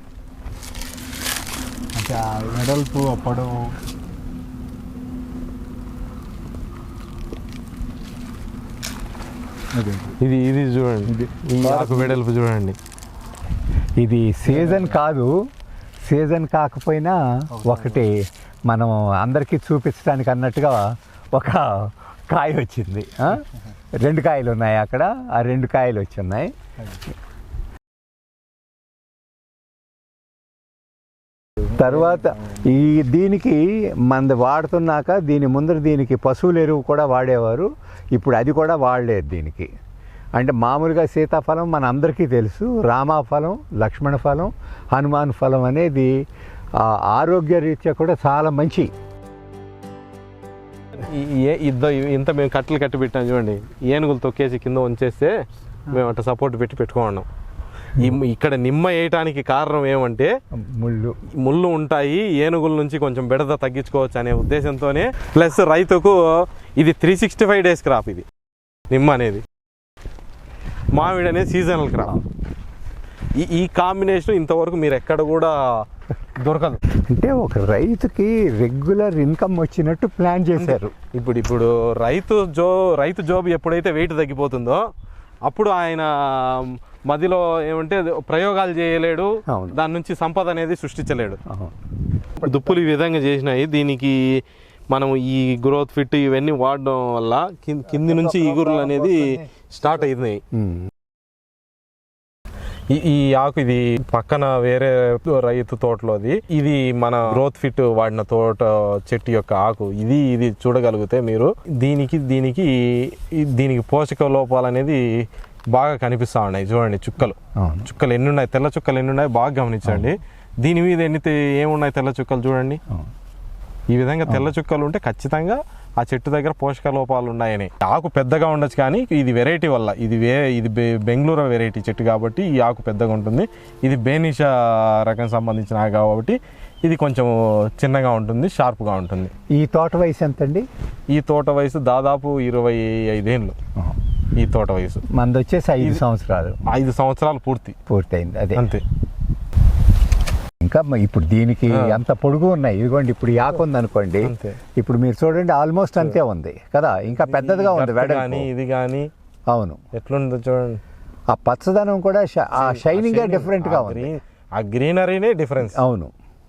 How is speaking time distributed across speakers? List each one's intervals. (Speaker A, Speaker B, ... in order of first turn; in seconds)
Speaker A: 1.9-3.6, 9.7-10.2, 11.1-12.2, 14.5-14.9, 17.5-18.0, 31.8-32.2, 92.4-92.8, 97.9-100.1
Speaker B: 10.2-12.8, 51.0-55.3, 55.9-57.3, 58.0-60.3, 61.4-68.2, 68.9-69.4, 70.9-72.2, 73.4-75.6, 76.4-76.8, 80.6-84.8, 85.5-91.4, 92.4-94.2, 94.9-100.4, 102.9-115.0, 115.7-122.8, 123.9-139.3, 141.1-143.6, 144.3-145.0, 146.7-147.8, 148.6-148.8, 151.7-152.0, 154.2-154.6, 157.1-159.1, 159.9-160.8, 162.6-165.8
Speaker C: 14.0-15.3, 16.1-23.5, 24.0-26.5, 31.7-39.7, 40.4-46.1, 46.8-48.9, 60.5-61.2, 77.0-80.9, 89.5-89.8, 91.5-91.7, 100.5-100.9, 117.6-117.9, 119.8-120.1, 124.3-124.5, 139.5-140.7, 145.1-146.6, 147.9-148.7, 150.6-158.5, 159.5-159.8, 161.3-164.1, 165.6-166.1